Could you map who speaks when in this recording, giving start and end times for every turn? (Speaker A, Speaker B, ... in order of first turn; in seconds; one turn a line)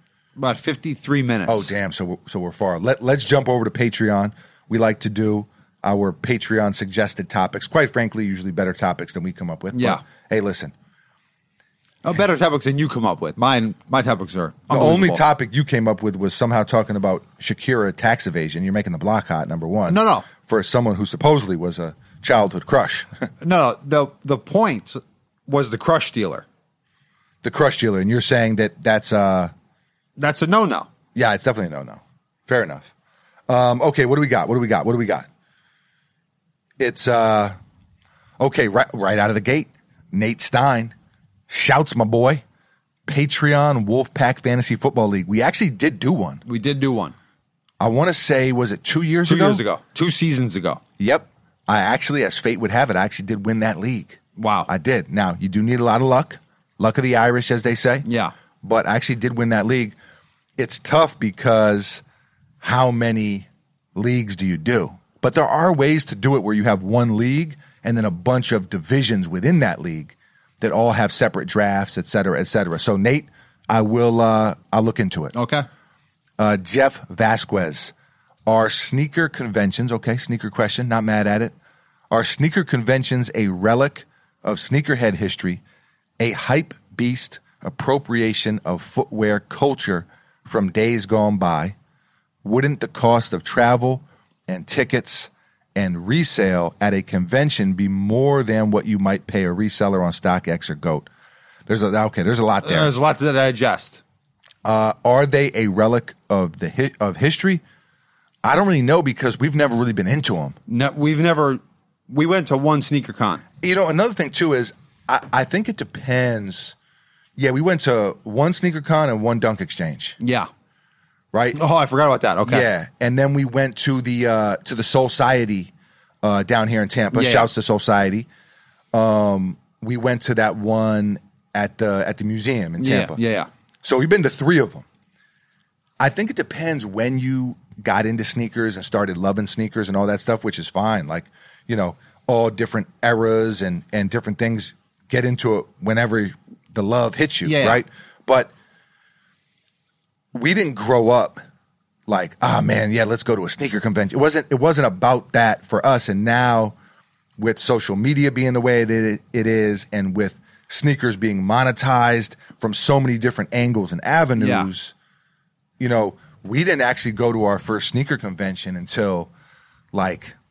Speaker A: 0.3-1.7
Speaker B: 1.5-10.7
Speaker A: 9.7-10.0
Speaker A: 12.0-15.2
Speaker B: 14.7-23.1
Speaker A: 19.9-20.2
Speaker A: 23.4-26.4
Speaker B: 27.4-29.5
Speaker A: 30.2-30.9
Speaker B: 31.1-32.9
Speaker B: 33.5-35.2
Speaker B: 36.8-37.5
Speaker B: 38.4-40.9
Speaker B: 41.5-42.4
Speaker B: 43.1-46.4
Speaker A: 46.4-47.1
Speaker B: 47.8-49.6
Speaker A: 49.2-50.8
Speaker B: 51.0-58.0
Speaker A: 54.4-54.7
Speaker A: 58.0-58.3
Speaker B: 58.6-59.9
Speaker B: 60.6-62.0
Speaker B: 62.6-75.3
Speaker A: 75.3-75.7
Speaker B: 76.4-77.9
Speaker B: 78.5-81.5
Speaker B: 82.1-85.6
Speaker B: 86.2-91.7
Speaker B: 92.4-101.1
Speaker B: 101.7-102.9
Speaker A: 102.6-104.0
Speaker B: 104.6-107.6
Speaker B: 108.4-110.6
Speaker A: 110.7-113.4
Speaker B: 113.6-116.7
Speaker B: 117.4-120.2
Speaker A: 120.2-120.5
Speaker B: 121.3-121.6
Speaker A: 121.5-122.7
Speaker B: 122.5-125.7
Speaker B: 126.2-128.3
Speaker A: 127.1-127.5
Speaker B: 128.9-133.2
Speaker A: 132.8-133.5
Speaker B: 133.8-134.8
Speaker B: 136.0-148.5
Speaker A: 147.4-147.8
Speaker B: 150.3-151.4
Speaker B: 152.1-156.7
Speaker B: 157.4-164.9
Speaker A: 164.4-164.7
Speaker B: 165.8-169.3
Speaker B: 169.9-170.3